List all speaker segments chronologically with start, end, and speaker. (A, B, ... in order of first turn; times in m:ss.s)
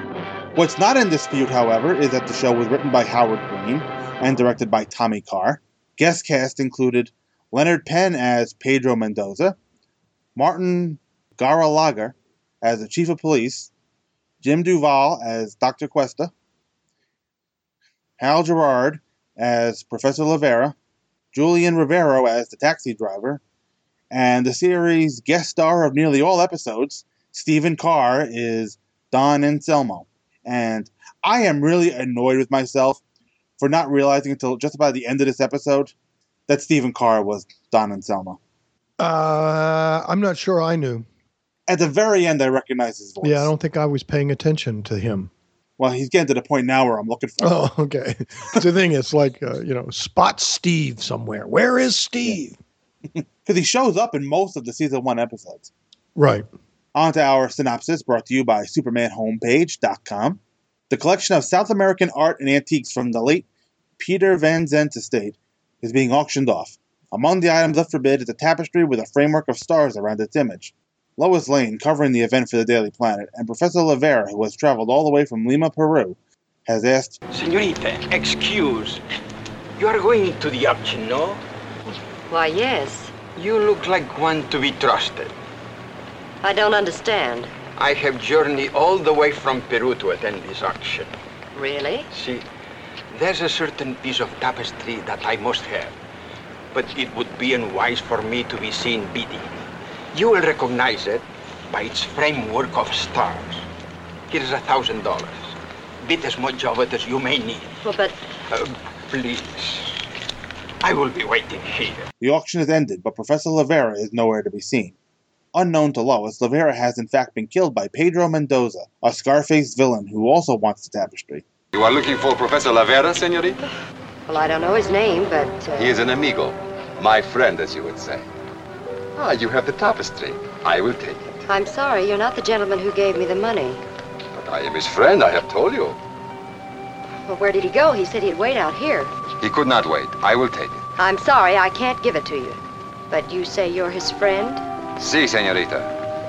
0:00.5-0:09.6 A
0:10.4-0:13.7 A
0:14.4-0:16.3 A
0:18.2-0:20.7 A
0:21.3-0:23.4 A
0:24.1-0:33.0 A
0:33.6-0:35.9 A
0:36.5-0:38.4 A
0:39.0-0:41.0 B
0:41.7-0:43.5 A
0:43.2-0:45.3 B
0:45.8-0:47.6 A
0:47.4-0:52.6 B
0:53.4-0:55.7 A
0:56.1-0:56.5 B
0:56.9-1:03.4 A
1:04.0-1:17.2 A
1:17.3-1:19.0 C
1:19.8-1:21.4 C
1:22.3-1:23.2 D
1:23.3-1:25.3 C
1:26.4-1:27.5 D
1:27.8-1:31.1 C
1:31.5-1:32.1 D
1:32.1-1:32.4 C
1:33.1-1:35.9 C
1:36.7-1:39.5 C
1:40.1-1:43.6 C
1:44.3-1:47.8 C
1:47.8-1:48.2 D
1:48.5-1:50.0 C
1:50.8-1:52.1 C
1:52.2-1:54.9 A
1:55.5-2:01.4 A
2:01.7-2:03.6 E
2:04.3-2:05.9 D
2:05.7-2:08.3 E
2:09.2-2:11.4 E
2:11.5-2:13.8 D
2:14.4-2:16.0 E
2:17.2-2:19.1 D
2:19.4-2:20.8 E
2:21.0-2:24.6 D
2:25.0-2:25.9 E